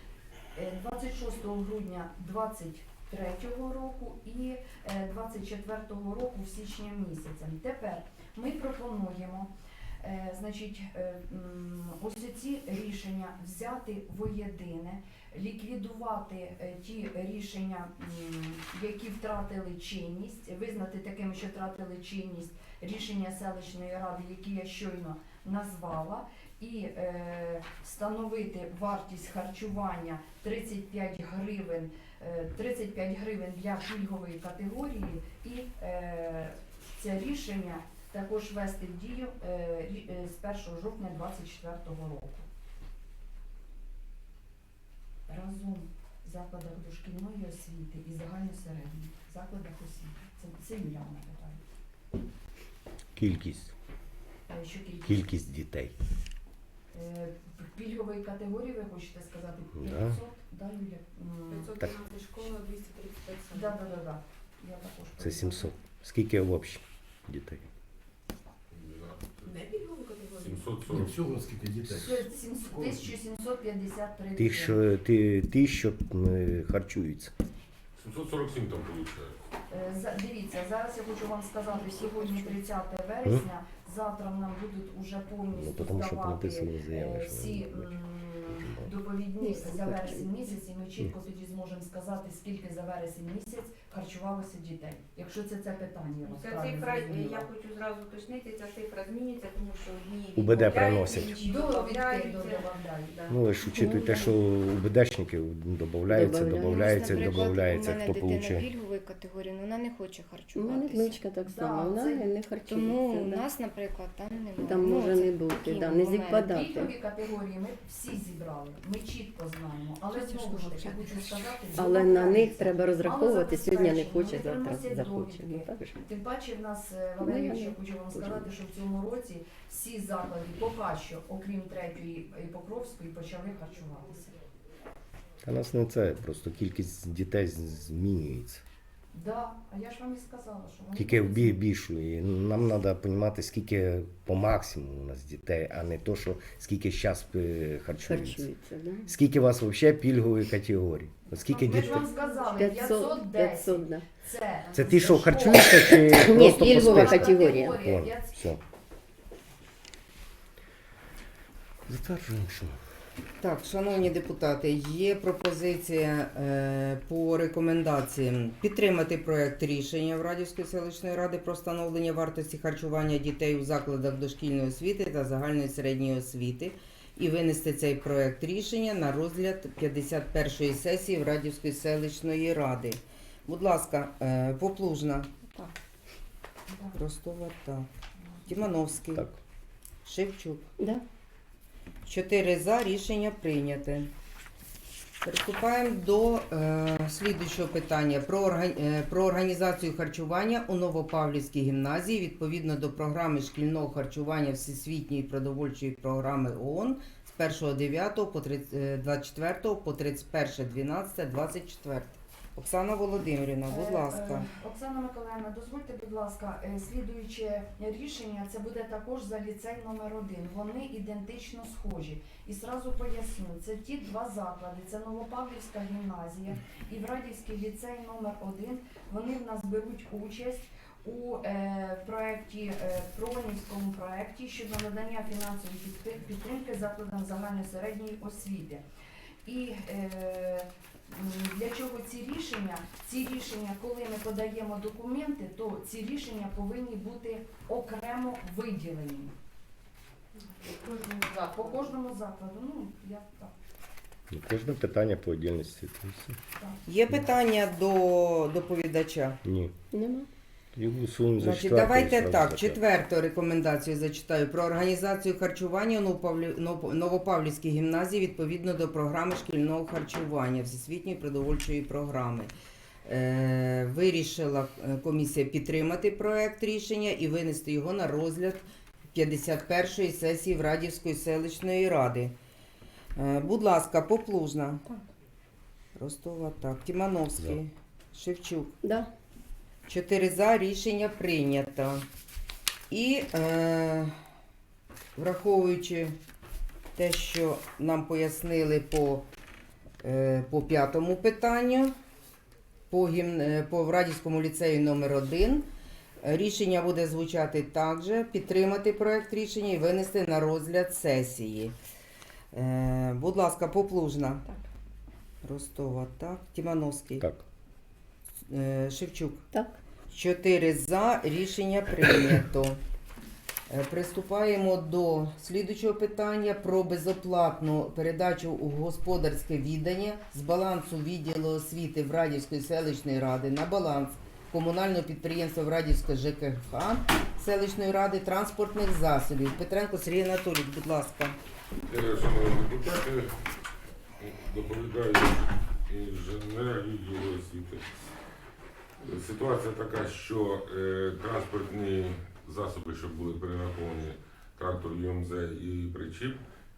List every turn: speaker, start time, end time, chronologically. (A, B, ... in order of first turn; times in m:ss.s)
0:00.5-0:42.5 A
0:45.3-0:51.6 A
0:53.1-0:53.7 B
0:54.5-0:55.4 A
0:55.0-0:56.0 B
0:56.9-1:01.8 A
0:59.7-1:00.2 B
1:01.5-1:03.8 C
1:03.5-1:05.7 A
1:05.2-1:07.7 B
1:08.7-1:09.5 D
1:09.4-1:10.8 C
1:10.4-1:11.2 D
1:10.8-1:13.1 E
1:11.9-1:14.8 A
1:14.3-1:17.3 B
1:18.0-1:19.3 D
1:19.7-1:37.5 A
1:21.8-1:22.5 F
1:25.5-1:27.9 B
1:28.5-1:28.9 B
1:29.4-1:30.3 F
1:36.2-1:43.4 G
1:40.4-1:41.4 B
1:41.3-1:43.2 A
1:43.3-1:48.7 B
1:43.7-1:44.3 F
1:46.1-1:47.0 F
1:46.6-1:51.2 H
1:50.5-1:53.4 F
1:51.4-1:52.3 A
1:52.7-1:56.5 H
1:54.6-1:56.9 F
1:56.3-2:14.3 A
2:00.1-2:01.6 C
2:01.7-2:06.0 F
2:07.2-2:08.5 F
2:15.4-2:18.6 B
2:19.1-2:21.6 A
2:21.0-2:28.5 B
2:28.0-2:29.1 F
2:29.0-2:32.1 B
2:31.3-2:38.5 A
2:32.5-2:34.0 F
2:34.7-2:38.6 B
2:35.8-2:37.8 F
2:41.8-2:42.8 B
2:43.4-3:05.3 I
3:06.7-3:06.9 A
3:06.9-3:07.9 I
3:08.2-3:08.4 A
3:08.4-3:09.2 I
3:10.0-3:10.6 I
3:10.8-3:11.0 F
3:12.0-3:14.1 I
3:15.2-3:34.5 I
3:33.7-3:58.8 A
3:59.4-4:09.3 A
4:10.6-4:10.9 G
4:10.8-4:13.5 A
4:11.5-4:11.8 G
4:14.3-4:16.4 B
4:16.8-4:19.4 I
4:19.4-4:19.7 B
4:19.9-4:20.3 F
4:20.7-4:22.8 B
4:21.4-4:32.5 I
4:33.0-4:42.3 I
4:43.2-4:44.8 I
4:46.0-4:48.8 I
4:48.8-4:49.1 F
4:49.9-4:52.0 I
4:52.9-4:54.1 I
4:55.2-4:56.2 I
4:57.0-4:59.2 I
5:00.0-5:01.9 I
5:02.9-5:05.7 I
5:06.2-5:11.7 I
5:12.5-5:14.4 I
5:15.4-5:17.2 I
5:17.2-5:17.4 B
5:18.5-5:19.4 I
5:19.5-5:19.8 F
5:20.1-5:22.8 I
5:23.7-5:41.4 I
5:41.9-5:43.3 D
5:44.2-5:47.8 D
5:49.0-5:56.4 D